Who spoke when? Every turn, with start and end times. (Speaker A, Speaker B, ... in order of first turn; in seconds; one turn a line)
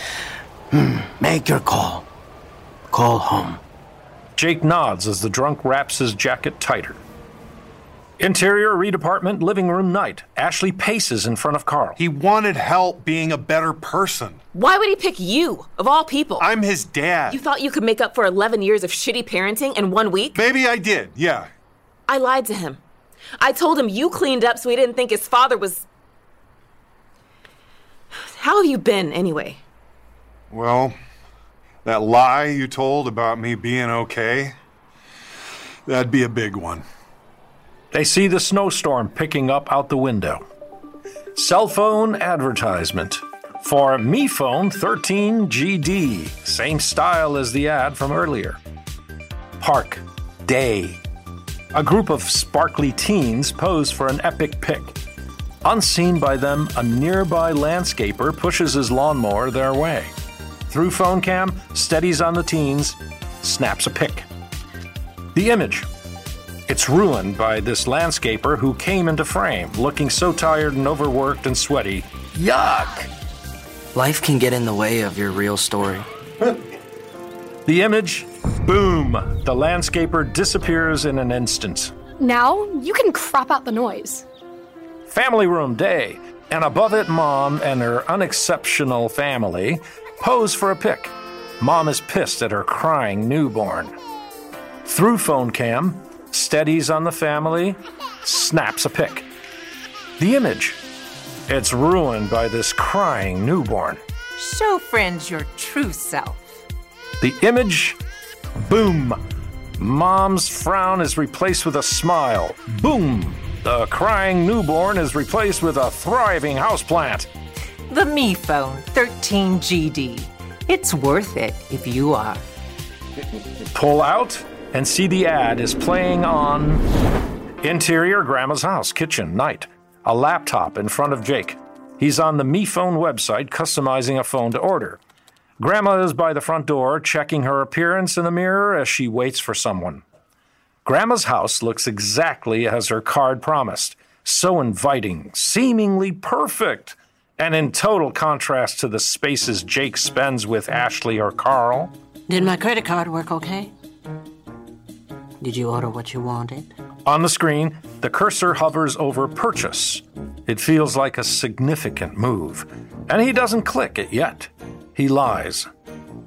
Speaker A: 0.7-2.1
Speaker A: 2.9-3.6
Speaker B: 4.4-7.0
Speaker B: 8.2-12.0
Speaker C: 12.0-14.4
Speaker D: 14.5-16.5
Speaker C: 16.4-17.4
Speaker D: 17.3-20.4
Speaker C: 20.3-21.5
Speaker D: 22.1-22.8
Speaker D: 23.4-25.9
Speaker D: 28.2-29.6
Speaker C: 30.5-31.0
Speaker C: 31.9-34.6
Speaker C: 35.9-36.9
Speaker B: 37.9-40.4
Speaker B: 41.4-48.6
Speaker B: 49.6-51.0
Speaker B: 51.7-55.0
Speaker B: 55.6-60.1
Speaker B: 60.7-64.3
Speaker B: 65.3-65.9
Speaker B: 66.7-73.1
Speaker E: 73.9-76.1
Speaker B: 77.7-81.9
Speaker F: 82.2-84.2
Speaker B: 85.1-93.9
Speaker B: 94.8-99.3
Speaker B: 100.2-100.8
Speaker B: 101.5-104.0
Speaker G: 104.4-106.4
Speaker B: 107.2-108.0
Speaker B: 108.6-109.2
Speaker B: 109.8-117.3
Speaker G: 117.9-122.4
Speaker B: 123.6-126.8
Speaker B: 127.6-135.0
Speaker B: 135.6-140.0
Speaker B: 140.8-151.9
Speaker H: 152.3-153.7
Speaker H: 155.4-156.7
Speaker B: 157.1-165.7